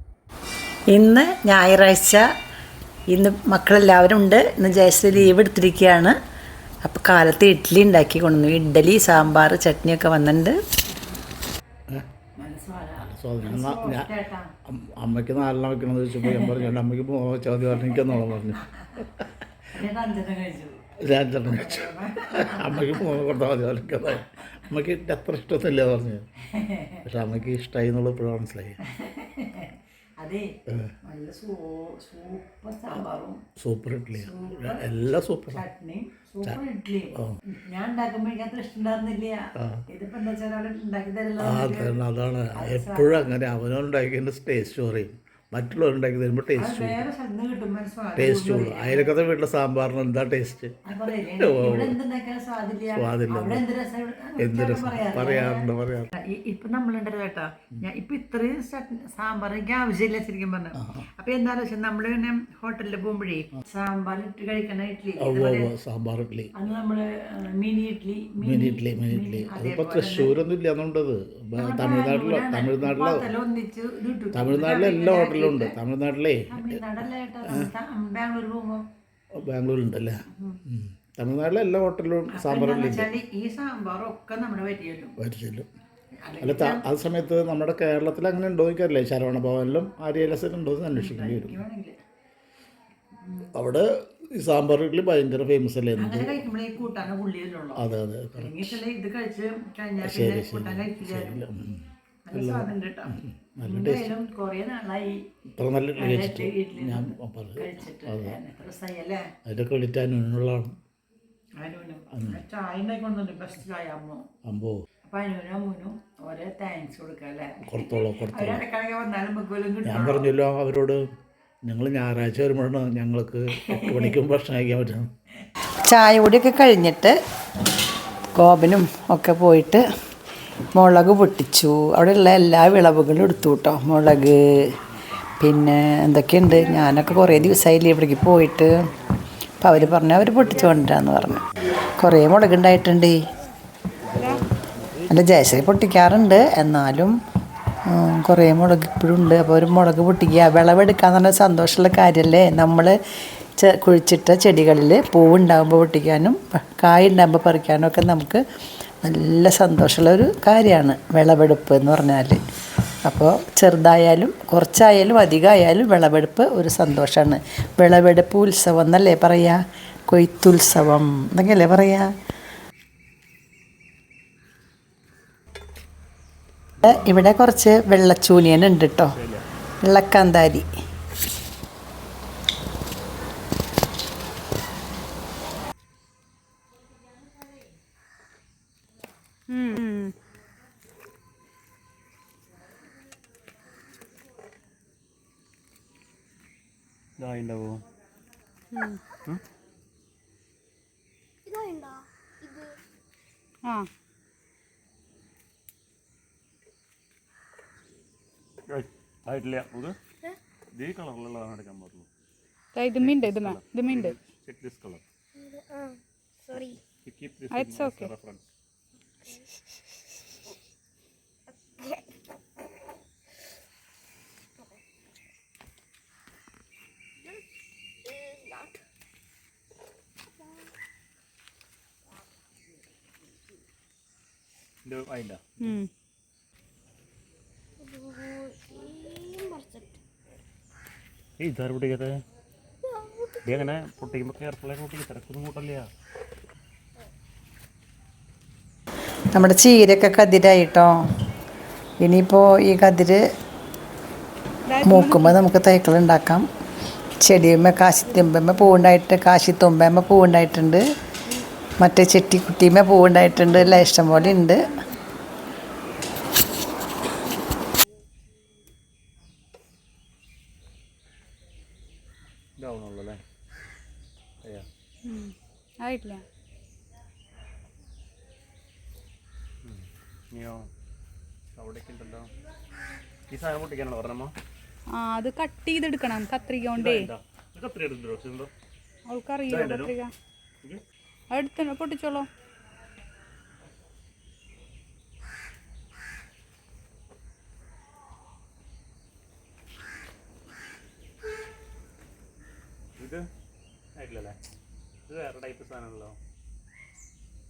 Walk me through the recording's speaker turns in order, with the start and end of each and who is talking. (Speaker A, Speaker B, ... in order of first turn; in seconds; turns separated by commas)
Speaker A: 0.9-2.2, Speaker A: 3.1-6.2, Speaker A: 6.8-10.6, Speaker A: 12.3-14.5, Speaker B: 13.1-14.1, Speaker B: 14.6-19.6, Speaker A: 16.2-16.7, Speaker A: 19.7-20.8, Speaker B: 21.0-26.3, Speaker A: 21.5-23.2, Speaker A: 26.4-27.0, Speaker B: 27.0-28.8, Speaker A: 28.9-30.5, Speaker B: 30.7-30.9, Speaker A: 31.1-33.4, Speaker B: 33.6-35.6, Speaker A: 34.1-34.8, Speaker A: 35.5-41.9, Speaker B: 39.6-39.8, Speaker B: 41.4-47.0, Speaker A: 42.5-43.3, Speaker A: 46.5-49.1, Speaker B: 48.1-52.0, Speaker A: 50.9-65.7, Speaker B: 52.9-53.6, Speaker B: 54.4-56.1, Speaker B: 60.8-61.0, Speaker B: 65.2-66.5, Speaker A: 66.5-70.4, Speaker B: 68.4-73.3, Speaker A: 71.6-75.7, Speaker B: 74.3-76.8, Speaker A: 76.5-78.8, Speaker B: 77.5-77.7, Speaker B: 79.3-83.1, Speaker A: 80.3-80.6, Speaker A: 82.3-85.2, Speaker B: 85.2-85.7, Speaker A: 86.2-86.8, Speaker B: 86.4-91.6, Speaker A: 90.9-92.0, Speaker A: 93.2-93.5, Speaker B: 93.5-96.4, Speaker A: 96.0-97.8, Speaker B: 97.8-98.8, Speaker A: 98.3-101.4, Speaker B: 100.0-104.1, Speaker A: 102.2-105.2, Speaker B: 105.5-108.4, Speaker A: 106.0-109.3, Speaker B: 109.5-110.7, Speaker A: 111.6-114.2, Speaker B: 112.1-112.4, Speaker B: 114.4-114.8, Speaker A: 115.0-120.3, Speaker B: 117.6-118.7, Speaker B: 119.8-121.0, Speaker B: 121.6-125.1, Speaker A: 123.7-124.1, Speaker A: 125.8-127.2, Speaker C: 128.0-128.6, Speaker A: 128.3-129.8, Speaker A: 130.7-134.7, Speaker C: 134.2-135.3, Speaker A: 135.3-138.7, Speaker C: 136.8-137.5, Speaker C: 139.1-141.4, Speaker A: 139.6-143.2, Speaker C: 144.0-145.1, Speaker D: 144.2-144.4, Speaker A: 145.1-147.1, Speaker A: 147.9-152.9, Speaker A: 153.6-158.4, Speaker A: 159.0-162.4, Speaker A: 163.0-172.1, Speaker A: 176.8-179.1, Speaker C: 179.1-179.4, Speaker A: 179.8-180.7, Speaker D: 189.5-190.1, Speaker C: 197.2-197.8, Speaker D: 198.7-199.0, Speaker E: 201.5-202.7, Speaker C: 208.7-209.9, Speaker C: 210.7-212.1, Speaker D: 212.7-214.2, Speaker C: 213.0-215.0, Speaker E: 215.4-216.0, Speaker E: 216.5-216.8, Speaker C: 217.0-218.4, Speaker D: 217.5-218.1, Speaker E: 228.1-228.8, Speaker C: 234.8-235.7, Speaker D: 235.6-235.9, Speaker E: 237.8-240.0, Speaker C: 241.4-242.1, Speaker C: 243.4-245.9, Speaker A: 249.3-250.9, Speaker A: 252.0-253.2, Speaker D: 254.7-255.4, Speaker A: 254.8-256.4, Speaker A: 257.2-260.8, Speaker A: 261.8-264.7, Speaker D: 263.5-264.9, Speaker C: 272.6-273.2, Speaker D: 275.0-276.2, Speaker C: 279.6-280.7, Speaker C: 281.5-282.3, Speaker C: 283.3-284.3, Speaker D: 284.9-287.1, Speaker C: 286.7-288.5, Speaker D: 289.1-290.1, Speaker C: 289.5-289.9, Speaker D: 291.3-292.3, Speaker C: 303.0-303.2, Speaker C: 303.9-304.4, Speaker C: 305.1-306.2